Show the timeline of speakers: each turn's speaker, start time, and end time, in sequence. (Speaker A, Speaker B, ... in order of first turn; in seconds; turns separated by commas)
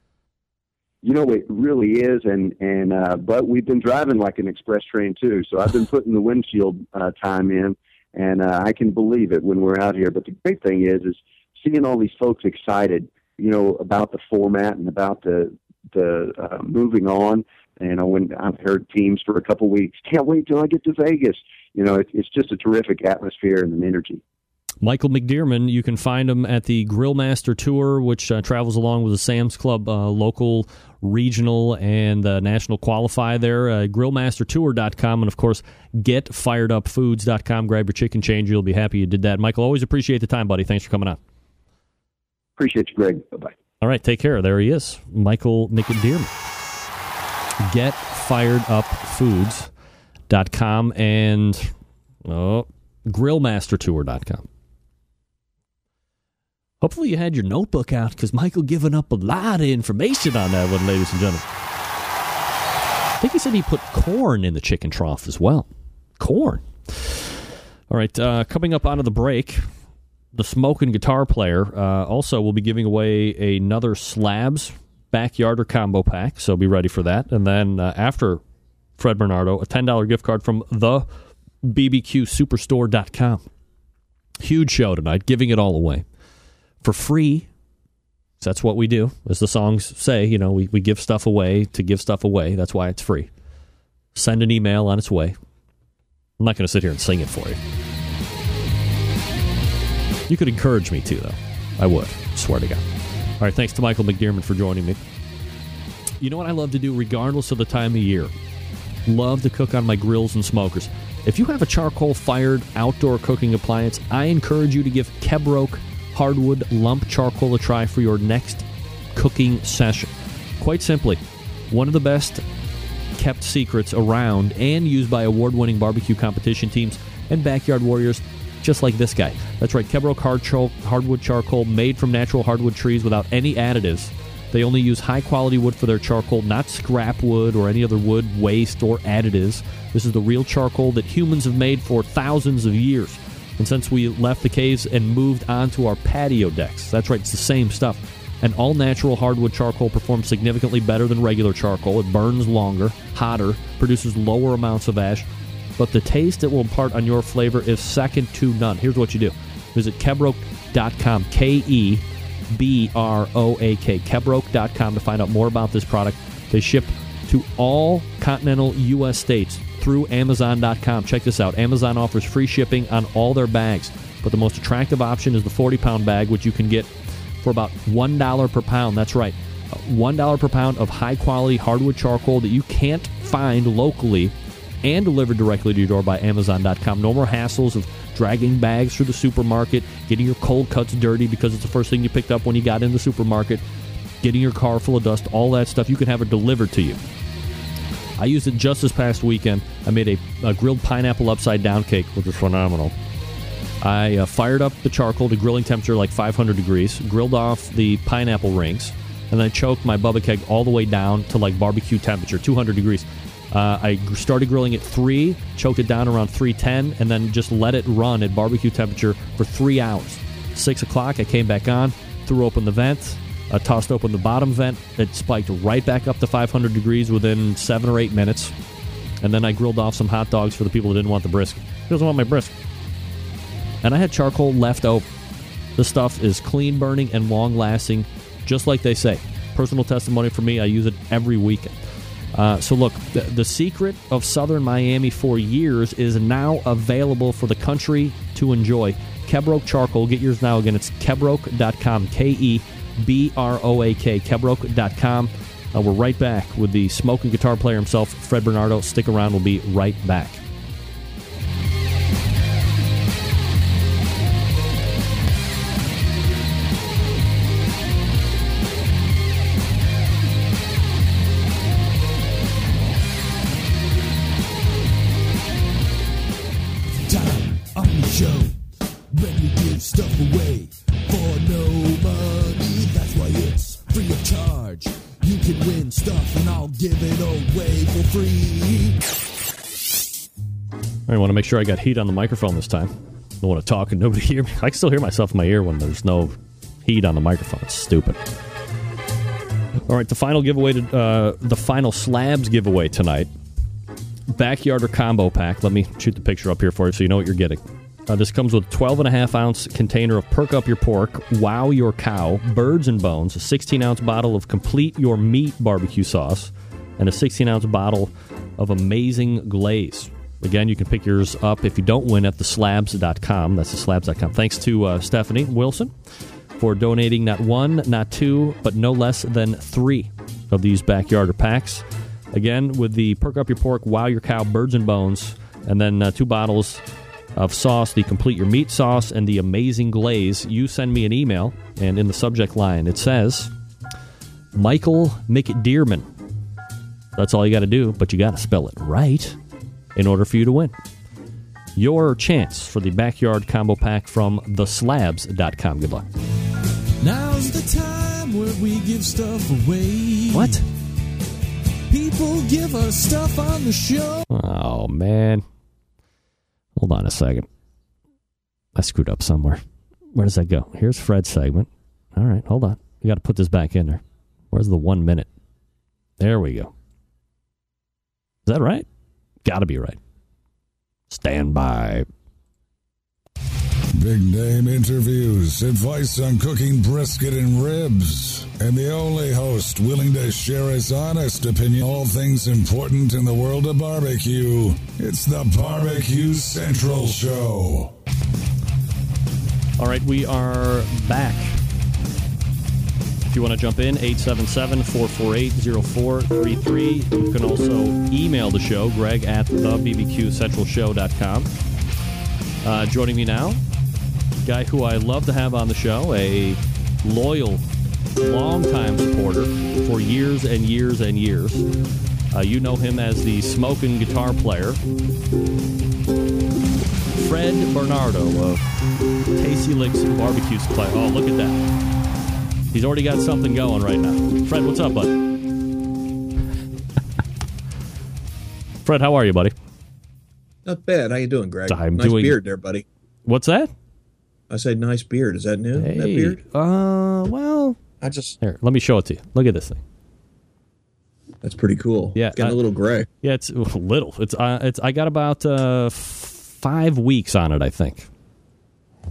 Speaker A: 1.0-24.2, Speaker B: 24.8-41.2, Speaker A: 42.6-43.5, Speaker B: 43.8-46.3, Speaker B: 47.6-49.7, Speaker B: 50.3-51.7, Speaker B: 52.2-54.5, Speaker B: 56.8-61.4, Speaker B: 63.2-65.7, Speaker B: 66.2-67.3, Speaker B: 67.9-69.7, Speaker B: 70.3-78.4, Speaker B: 79.0-81.1, Speaker B: 81.6-83.5, Speaker B: 84.4-86.0, Speaker B: 86.8-87.5, Speaker B: 88.4-93.3, Speaker B: 94.1-95.3, Speaker B: 96.4-97.6, Speaker B: 100.3-102.8, Speaker B: 103.4-105.0, Speaker B: 106.2-108.3, Speaker B: 109.1-120.1, Speaker B: 120.6-121.2, Speaker B: 121.7-122.4, Speaker B: 123.2-155.3, Speaker B: 155.8-176.9, Speaker B: 177.4-193.6, Speaker B: 194.2-197.0, Speaker B: 198.2-202.9, Speaker B: 203.8-228.5, Speaker B: 229.2-232.5, Speaker B: 233.8-235.1, Speaker B: 235.8-241.7, Speaker B: 242.3-260.4, Speaker C: 277.1-278.5, Speaker C: 279.1-289.0, Speaker B: 291.1-296.3, Speaker B: 296.8-298.2, Speaker B: 299.9-303.3, Speaker B: 304.3-325.9, Speaker B: 326.6-336.8, Speaker B: 337.4-343.5, Speaker B: 344.5-346.1, Speaker B: 347.1-349.4, Speaker B: 349.9-350.7, Speaker B: 351.8-356.1, Speaker C: 357.0-360.6, Speaker B: 360.3-360.6, Speaker C: 361.9-364.2, Speaker B: 364.3-365.4, Speaker B: 366.8-367.5, Speaker B: 368.7-369.6, Speaker B: 370.1-375.3, Speaker B: 376.2-376.7, Speaker B: 378.4-378.9, Speaker B: 379.4-380.0, Speaker B: 381.1-382.1, Speaker D: 383.9-397.9, Speaker B: 399.8-401.6, Speaker B: 403.3-411.5, Speaker B: 412.6-413.6, Speaker B: 414.4-417.6, Speaker B: 418.2-421.6, Speaker B: 422.3-424.8, Speaker B: 427.1-428.6, Speaker B: 429.3-431.6, Speaker B: 432.7-435.1, Speaker B: 438.8-439.5, Speaker E: 440.6-442.8, Speaker B: 441.7-442.4, Speaker B: 443.2-443.7, Speaker E: 444.5-446.4, Speaker B: 445.8-447.8, Speaker E: 448.0-448.4, Speaker B: 448.4-449.8, Speaker E: 451.4-453.1, Speaker B: 452.1-452.6, Speaker B: 453.2-458.1